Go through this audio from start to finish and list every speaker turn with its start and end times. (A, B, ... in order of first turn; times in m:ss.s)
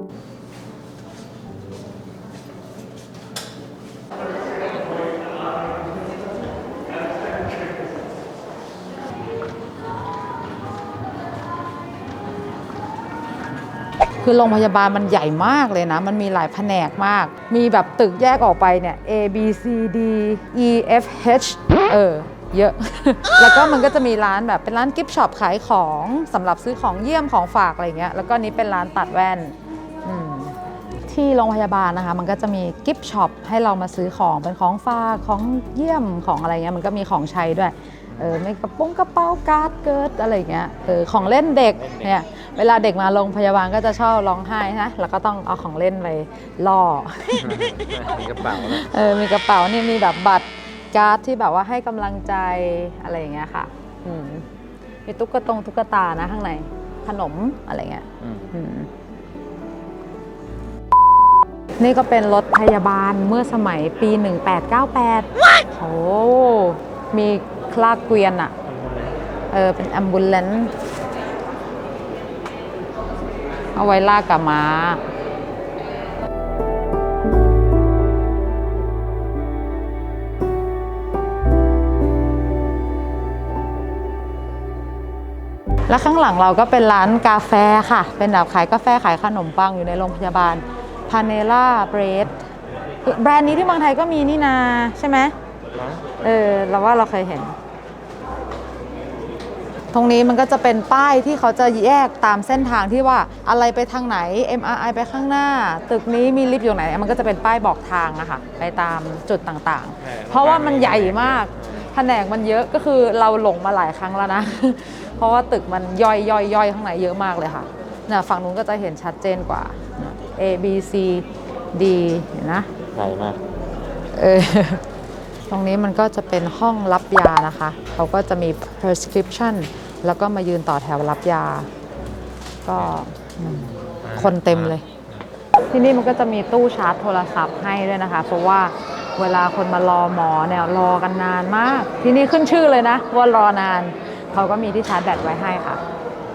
0:14.2-0:47.8 A
0:47.4-0:48.8 B
0:48.4-0:54.4 A
0:55.0-0:58.9 A
0:58.2-0:58.5 B
1:01.8-1:08.5 A
1:09.5-1:10.7 A
1:13.8-1:15.0 A
1:25.9-1:32.4 A
1:33.0-1:35.3 A
1:36.2-1:37.6 A
1:39.9-2:02.7 A
1:50.1-1:51.6 B
2:03.0-2:03.4 B
2:04.1-2:04.8 A
2:05.5-2:11.7 A
2:12.6-2:14.8 A
2:14.1-2:14.7 B
2:15.7-2:25.8 A